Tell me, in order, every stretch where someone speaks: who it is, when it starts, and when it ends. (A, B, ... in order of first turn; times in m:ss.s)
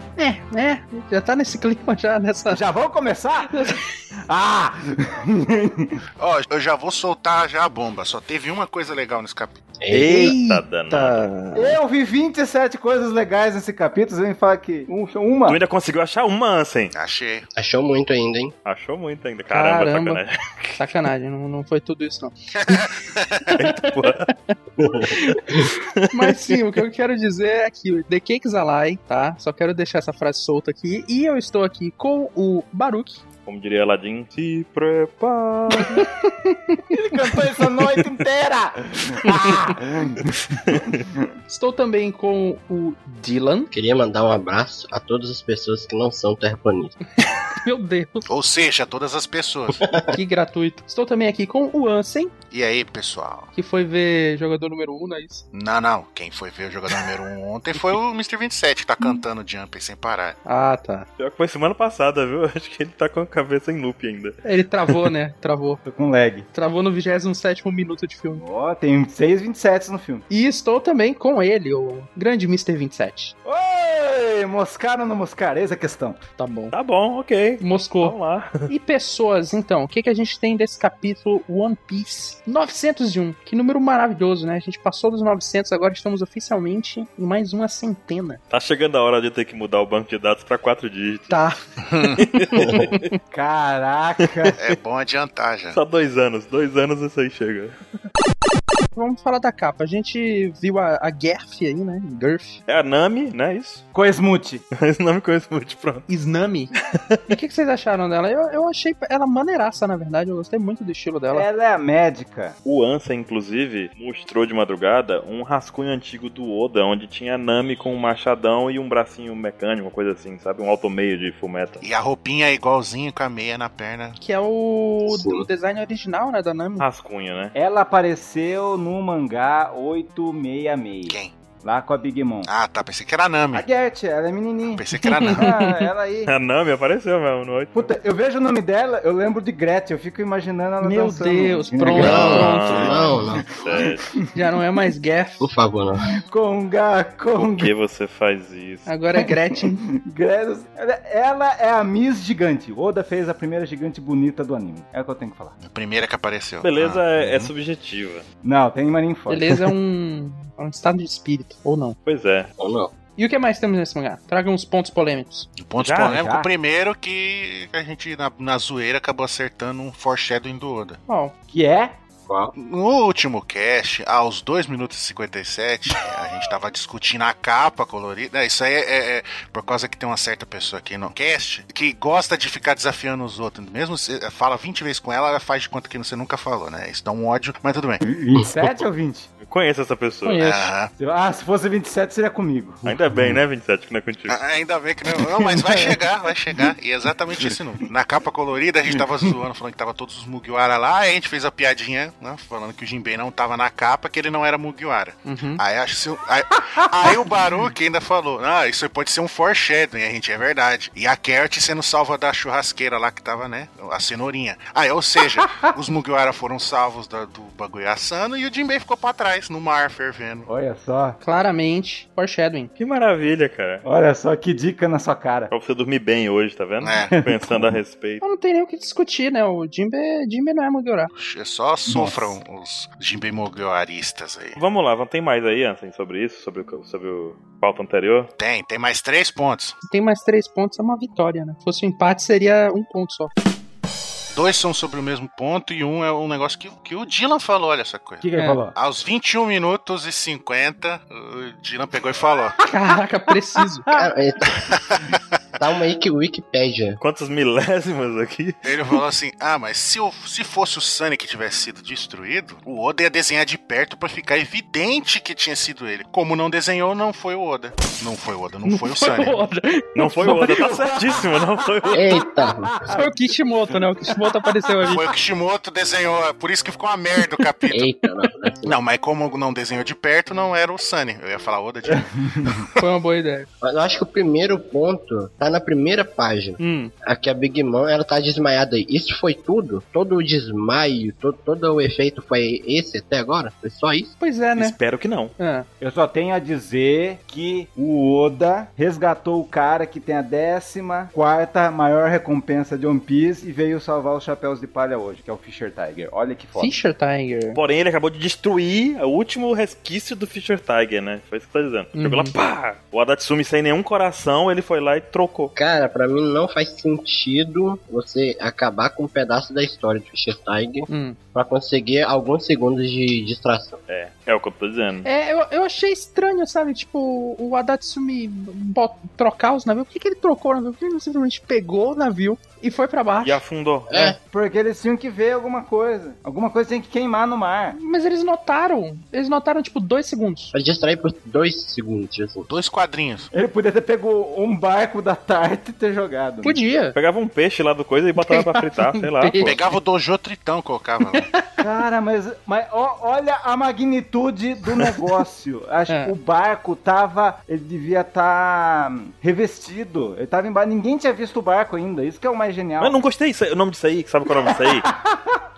0:00.2-0:02.6 A
0:02.5-0:03.5 B
0:03.5-0:03.8 A
0:04.3-0:06.0 B
0:06.2-0:09.6 C
0:09.8-0:10.4 D
0:09.9-0:11.8 A
0:10.1-0:11.2 E
0:11.6-0:15.6 B
0:15.5-0:16.9 E
0:16.9-0:17.5 C
0:17.6-0:18.5 D
0:18.6-0:20.8 E
0:19.5-0:20.2 A
0:20.8-0:22.9 A
0:22.6-0:23.6 C
0:23.5-0:33.2 A
0:23.6-0:24.3 E
0:24.8-0:25.7 D
0:25.8-0:26.8 E
0:33.5-0:36.1 E
0:35.9-0:36.8 A
0:36.9-0:41.2 B
0:39.2-0:39.6 A
0:40.7-0:41.0 E
0:41.5-0:43.7 A
0:43.7-0:47.0 D
0:47.2-0:48.2 A
0:48.3-0:49.8 C
0:49.8-0:50.2 D
0:50.1-0:52.3 A
0:52.5-0:53.5 C
0:53.6-0:55.4 A
0:55.5-1:00.4 C
1:00.5-1:01.1 A
1:01.2-1:05.1 E
1:04.4-1:05.8 A
1:05.8-1:06.5 B
1:06.5-1:08.4 A
1:08.4-1:10.3 B
1:10.3-1:13.3 A
1:13.4-1:16.2 B
1:16.4-1:16.7 A
1:16.7-1:18.7 E
1:17.6-1:28.4 A
1:28.5-1:31.4 E
1:31.3-1:33.2 A
1:32.2-1:33.0 E
1:33.3-1:34.6 B
1:34.3-1:34.6 E
1:34.6-1:35.8 C
1:35.7-1:37.8 E
1:39.0-1:42.6 A
1:42.7-1:43.8 E
1:43.9-1:44.6 B
1:44.7-1:46.1 E
1:46.1-1:46.7 A
1:46.9-1:47.4 E
1:47.3-1:51.5 A
1:51.3-1:52.6 B
1:52.6-2:01.8 E
2:01.8-2:04.2 C
2:04.2-2:06.9 A
2:05.1-2:05.5 D
2:06.8-2:07.6 E
2:07.6-2:12.5 B
2:11.1-2:11.3 C
2:12.5-2:13.7 C
2:13.5-2:16.3 B
2:14.7-2:15.5 C
2:15.1-2:15.8 A
2:16.3-2:17.8 E
2:17.7-2:24.2 B
2:20.8-2:23.1 A
2:21.9-2:23.6 D
2:21.9-2:24.2 E
2:24.3-2:25.5 A
2:25.4-2:26.2 D
2:26.2-2:27.7 B
2:27.4-2:28.9 E
2:28.9-2:29.8 A
2:29.2-2:35.6 B
2:35.6-2:37.5 C
2:36.6-2:38.2 E
2:38.4-2:39.4 B
2:39.3-2:42.0 A
2:42.1-2:42.5 E
2:42.6-2:42.9 D
2:43.2-2:45.5 A
2:45.6-2:51.0 C
2:45.8-2:46.2 E
2:46.0-2:46.5 B
2:51.1-2:51.3 A
2:51.5-2:51.9 B
2:52.3-2:52.5 D
2:52.6-3:08.0 C
3:08.0-3:09.3 B
3:09.4-3:10.5 E
3:10.2-3:10.7 A
3:10.4-3:10.9 C
3:10.9-3:13.4 B
3:12.8-3:14.4 E
3:14.3-3:40.5 C
3:15.6-3:15.9 A
3:25.3-3:25.6 A
3:40.5-3:41.2 B
3:41.2-3:42.7 A
3:42.8-3:43.8 E
3:43.8-3:45.5 B
3:45.5-3:48.2 E
3:46.8-3:47.2 C
3:47.1-3:47.7 B
3:48.2-3:51.1 A
3:51.1-3:54.6 C
3:51.9-3:52.3 B
3:54.6-3:58.3 E
3:58.4-3:59.8 C
3:59.8-4:03.3 A
4:04.3-4:08.2 C
4:08.2-4:08.8 B
4:08.8-4:12.6 C
4:12.7-4:13.9 A
4:14.0-4:14.7 D
4:14.7-4:15.2 C
4:15.6-4:17.0 D
4:17.0-4:18.6 E
4:18.6-4:29.4 C
4:28.6-4:30.7 A
4:30.0-4:32.1 E
4:30.2-4:33.1 B
4:31.9-4:32.9 D
4:32.9-4:35.1 A
4:34.9-4:37.9 C
4:37.7-4:38.8 D
4:38.6-4:42.7 C
4:41.9-4:42.6 B
4:42.8-4:43.5 A
4:43.6-4:54.1 D
4:46.6-4:46.9 A
4:54.2-4:54.8 A
4:54.6-4:55.3 E
4:55.4-4:55.7 A
4:55.8-5:06.8 B
5:06.6-5:07.6 A
5:07.5-5:15.5 E
5:12.0-5:12.3 A
5:15.6-5:23.8 D
5:20.9-5:21.2 A
5:23.9-5:25.1 E
5:25.0-5:33.4 A
5:33.2-5:34.2 E
5:33.9-5:34.2 D
5:34.2-5:37.8 B
5:37.7-5:40.5 A
5:40.5-5:42.5 D
5:42.5-5:43.3 C
5:43.3-5:46.6 B
5:46.4-5:47.0 A
5:47.0-5:49.6 E
5:48.2-5:49.7 A
5:49.4-5:51.3 C
5:51.1-5:51.4 A
5:51.6-6:03.0 B
5:55.9-5:56.1 A
6:02.8-6:04.9 E
6:04.3-6:05.4 B